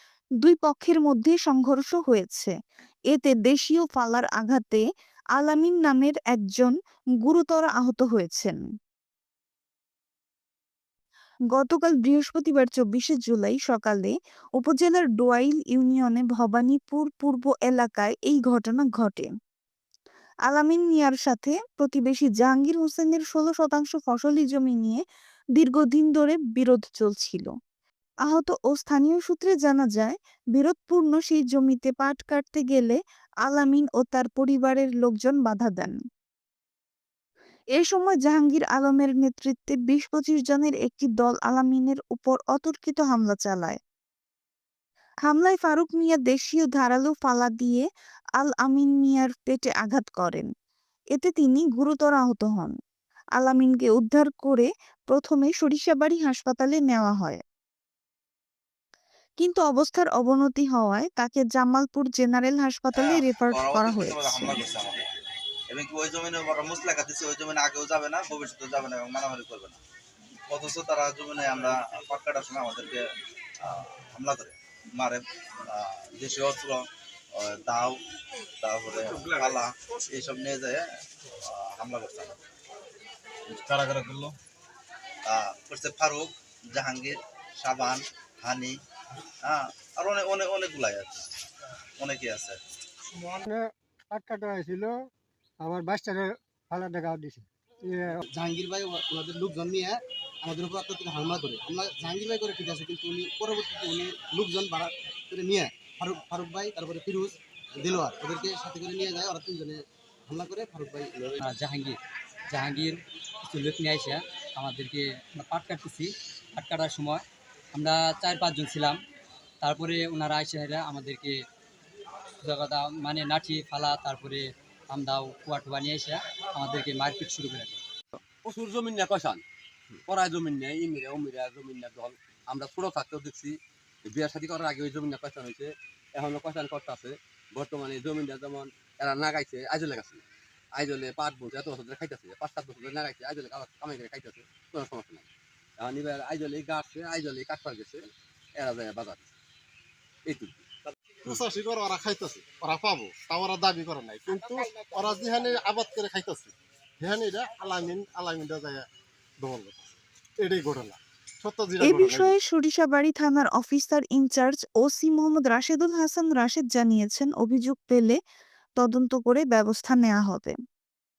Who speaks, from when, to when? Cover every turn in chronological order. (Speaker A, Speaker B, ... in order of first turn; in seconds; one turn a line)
Speaker A: 0.4-2.5
Speaker A: 3.1-4.8
Speaker A: 5.3-8.6
Speaker A: 11.5-19.3
Speaker A: 20.5-25.0
Speaker A: 25.6-27.5
Speaker A: 28.2-36.0
Speaker A: 37.8-43.8
Speaker A: 45.3-47.9
Speaker A: 48.4-50.5
Speaker A: 51.1-52.7
Speaker A: 53.4-57.4
Speaker A: 59.4-64.6
Speaker B: 62.9-65.1
Speaker B: 65.7-69.8
Speaker B: 70.5-73.0
Speaker B: 73.6-76.8
Speaker B: 77.3-78.0
Speaker B: 78.6-80.9
Speaker B: 81.4-82.4
Speaker B: 83.5-84.3
Speaker B: 85.3-88.8
Speaker B: 89.4-91.3
Speaker B: 92.0-92.6
Speaker C: 93.3-95.0
Speaker C: 95.6-98.2
Speaker D: 98.3-111.4
Speaker E: 111.4-112.0
Speaker E: 112.5-119.0
Speaker E: 119.6-121.4
Speaker E: 122.4-127.8
Speaker F: 128.4-129.4
Speaker F: 130.0-140.2
Speaker F: 140.7-145.3
Speaker F: 145.8-149.3
Speaker F: 150.3-150.6
Speaker G: 151.2-158.8
Speaker G: 159.4-162.3
Speaker A: 161.8-168.2
Speaker A: 168.8-170.5